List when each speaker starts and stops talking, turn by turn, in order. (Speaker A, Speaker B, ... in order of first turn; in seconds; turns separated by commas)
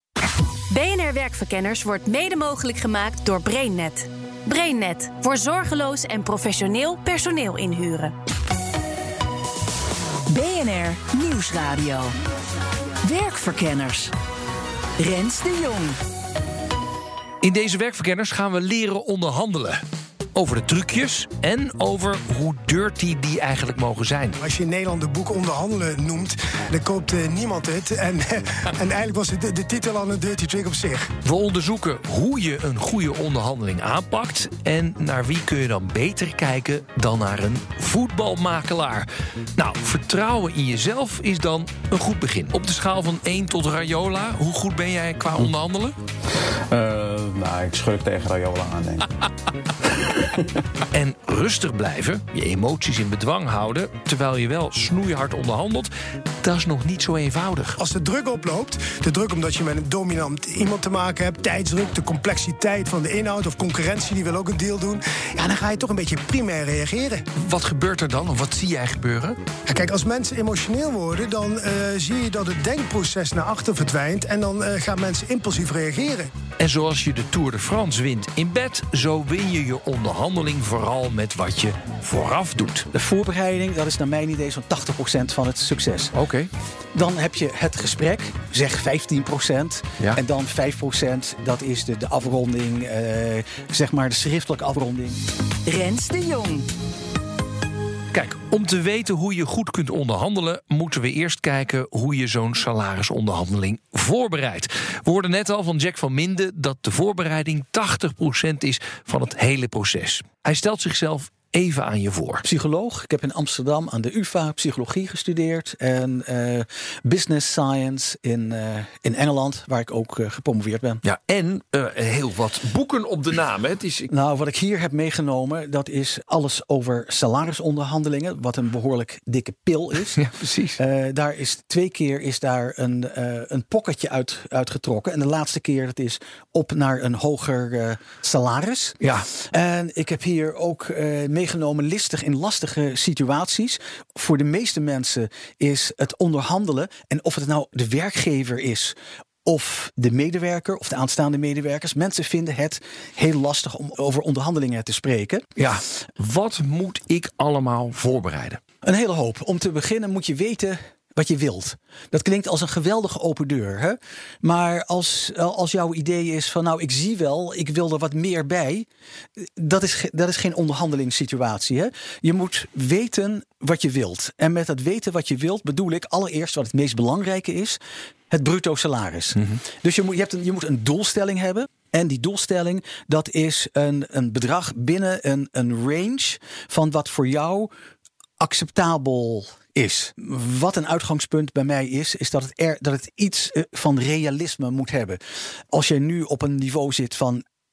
Speaker A: 0.7-8.1, Speaker B: 10.3-12.2, Speaker B: 13.0-14.1, Speaker B: 15.0-16.0, Speaker C: 17.4-19.8, Speaker C: 20.3-24.4, Speaker D: 24.4-31.1, Speaker C: 31.2-46.0, Speaker E: 46.7-49.1, Speaker E: 50.0-50.5, Speaker C: 50.9-55.9, Speaker C: 56.4-57.8, Speaker D: 57.8-67.2, Speaker C: 67.4-69.4, Speaker D: 69.7-76.3, Speaker C: 76.6-82.9, Speaker F: 82.9-86.1, Speaker C: 86.1-86.5, Speaker F: 86.9-95.2, Speaker B: 95.7-96.7, Speaker C: 98.1-112.4, Speaker F: 112.4-121.0, Speaker C: 121.0-124.1, Speaker F: 124.1-130.2, Speaker C: 130.2-130.8, Speaker F: 130.8-148.9, Speaker C: 139.0-139.3, Speaker F: 149.5-155.5, Speaker C: 155.6-158.6, Speaker F: 158.8-168.9, Speaker F: 169.6-177.8, Speaker F: 178.3-187.7, Speaker F: 188.4-195.2, Speaker F: 195.7-197.4